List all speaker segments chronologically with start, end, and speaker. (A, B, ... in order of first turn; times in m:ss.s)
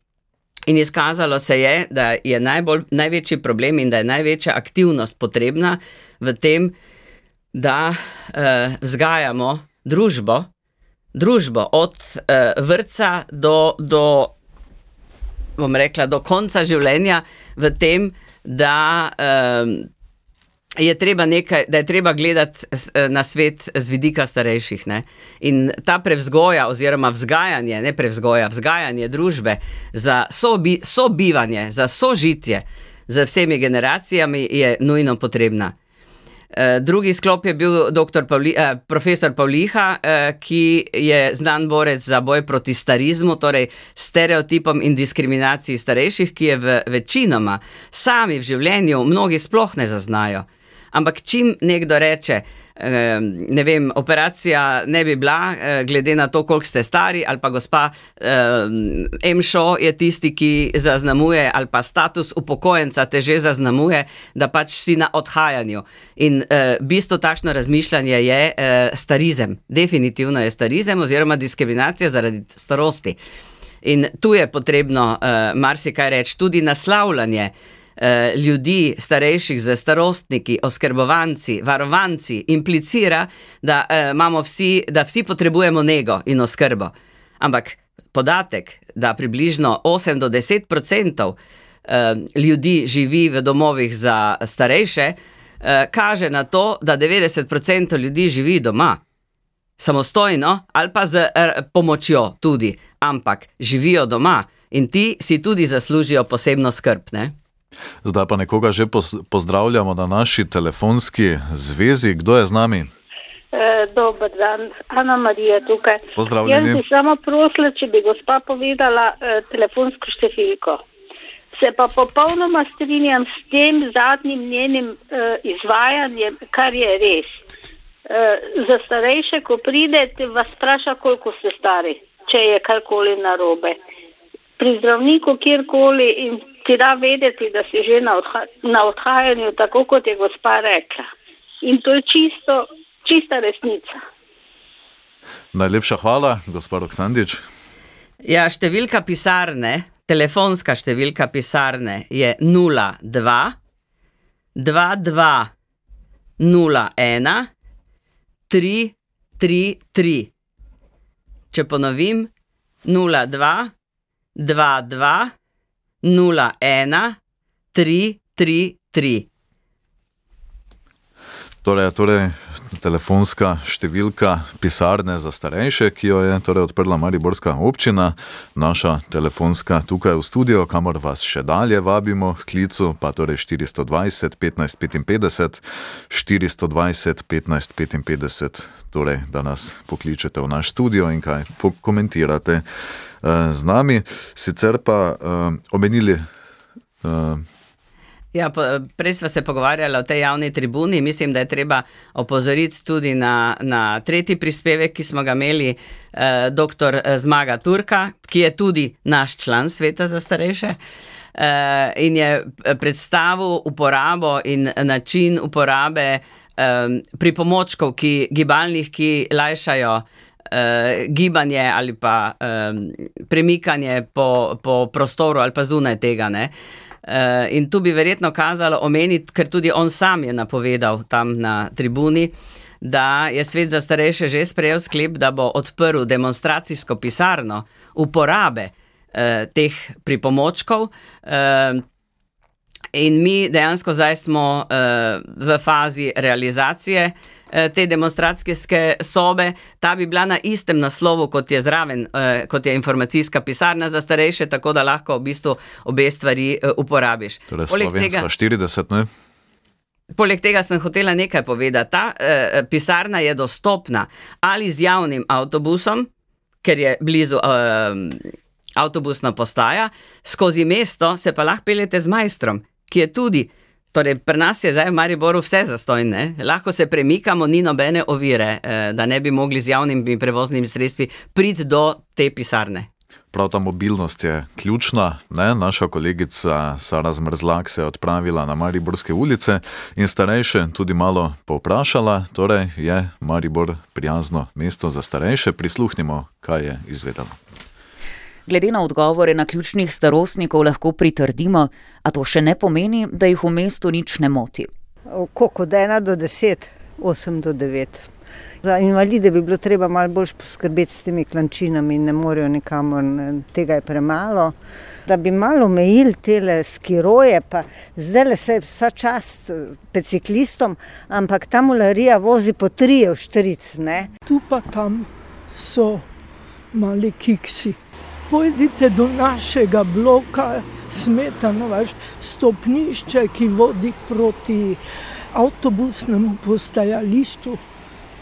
0:00.7-0:06.7 A
0:07.5-0:10.5 A
0:11.2-0:14.3 A
0:15.6-0:19.9 A
0:20.8-0:35.7 A
0:36.5-1:13.2 A
1:13.8-1:39.0 A
1:39.8-1:47.3 A
1:48.0-1:52.9 B
1:53.5-2:00.8 C
1:56.2-1:56.8 B
2:01.5-2:07.4 C
2:08.1-2:13.8 C
2:14.6-2:21.1 C
2:21.6-2:24.0 C
2:25.5-2:27.4 B
2:28.2-2:33.6 A
2:34.6-2:35.5 A
2:36.4-2:37.5 A
2:38.5-2:40.3 A
2:41.5-2:42.3 A
2:42.8-2:43.7 A
2:44.4-2:45.3 A
2:46.0-2:47.2 A
2:47.7-2:49.3 A
2:51.6-3:12.6 B
3:13.2-3:16.3 B
3:17.0-3:17.4 B
3:18.3-3:30.8 A
3:31.4-3:46.5 A
3:47.1-4:01.8 A
4:02.9-4:18.3 A
4:17.5-4:19.1 B
4:20.1-4:26.1 A
4:26.6-4:28.3 A
4:28.8-4:42.9 A
4:43.3-4:57.4 B
4:58.5-5:04.7 D
5:05.1-5:08.1 E
5:08.6-5:14.6 E
5:15.1-5:24.1 E
5:24.3-5:26.1 F
5:26.7-5:27.8 F
5:28.3-5:34.8 F
5:35.3-5:37.6 F